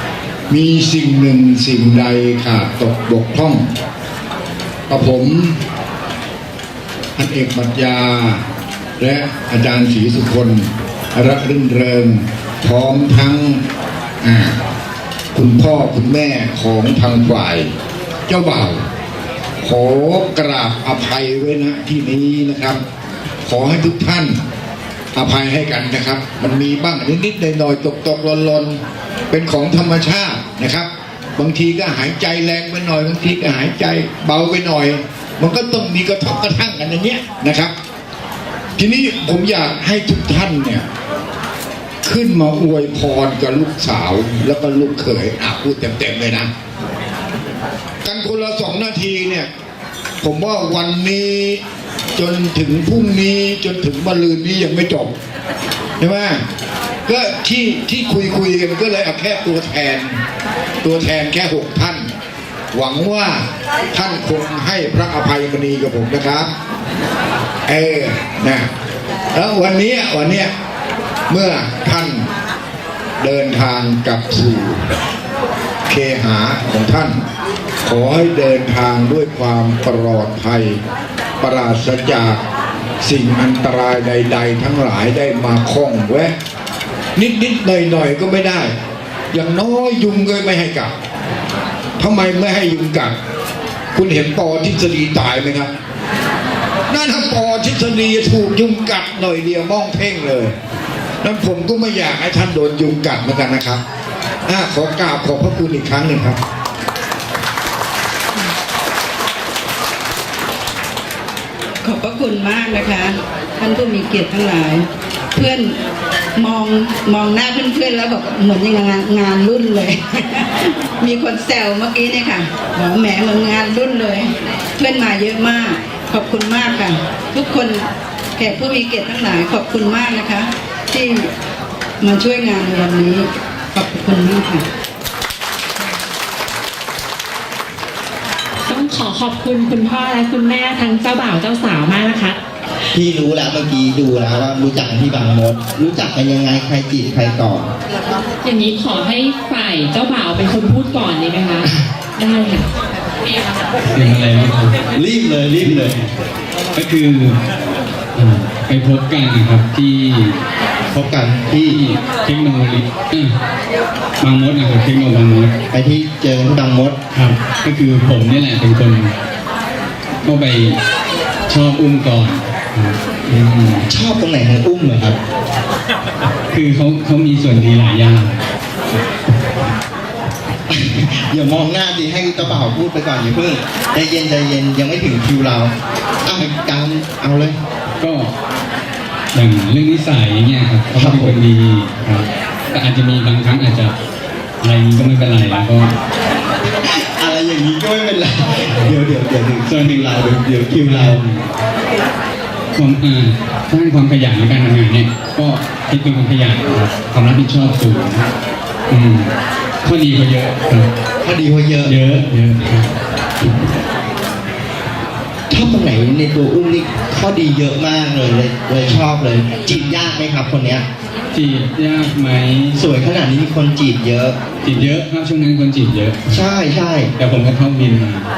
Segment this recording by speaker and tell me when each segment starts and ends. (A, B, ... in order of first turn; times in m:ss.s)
0:00.5-0:03.7 A
0:04.9-0:05.6 A
0:07.2-0:08.4 A
0:09.0-0:13.6 A
0:14.2-0:14.6 A
0:15.3-0:17.7 A
0:18.3-0:18.8 A
0:19.6-0:22.8 A
0:23.4-0:24.4 A
0:25.1-0:28.8 A
0:29.3-0:37.7 A
0:38.8-0:40.8 A
0:42.0-0:46.5 A
0:48.0-0:49.5 A
0:50.2-0:51.6 A
0:52.2-0:55.1 A
0:56.0-0:56.4 A
0:57.1-1:00.2 A
1:00.8-1:02.0 A
1:02.7-1:03.4 A
1:03.9-1:06.5 A
1:07.7-1:08.7 A
1:09.3-1:10.5 A
1:11.3-1:12.3 A
1:13.2-1:14.8 A
1:15.9-1:17.2 A
1:17.8-1:20.8 A
1:21.4-1:22.4 A
1:23.0-1:26.3 A
1:27.2-1:28.7 A
1:29.3-1:30.9 A
1:32.0-1:33.1 A
1:33.9-1:35.7 A
1:36.9-1:40.5 A
1:41.2-1:43.8 A
1:44.5-1:46.4 A
1:51.8-1:55.7 B
1:56.4-2:00.4 B
2:01.0-2:07.8 B
2:08.4-2:11.3 B
2:12.0-2:14.6 B
2:18.6-2:22.4 C
2:22.9-2:27.7 D
2:28.4-2:32.7 C
2:33.8-2:34.8 E
2:34.9-2:35.9 D
2:35.6-2:36.1 E
2:36.7-2:37.4 E
2:38.2-2:40.4 E
2:40.9-2:41.8 D
2:41.7-2:43.3 E
2:44.2-2:45.5 E
2:45.7-2:47.0 D
2:47.1-2:49.1 E
2:50.2-2:50.8 E
2:51.5-2:53.8 E
2:53.9-2:55.2 D
2:56.5-2:58.4 E
3:00.7-3:07.6 D
3:08.0-3:08.3 E
3:09.3-3:13.9 E
3:10.9-3:11.4 D
3:14.6-3:15.9 E
3:16.9-3:21.2 D
3:19.6-3:21.5 E
3:22.8-3:28.3 E
3:28.9-3:29.3 E
3:29.8-3:30.9 E
3:31.2-3:32.0 D
3:31.8-3:32.9 E
3:35.5-3:40.8 D
3:39.7-3:40.0 E
3:41.3-3:42.8 E
3:42.7-3:44.4 D
3:44.6-3:46.2 E
3:46.3-3:47.1 D
3:47.2-3:48.3 E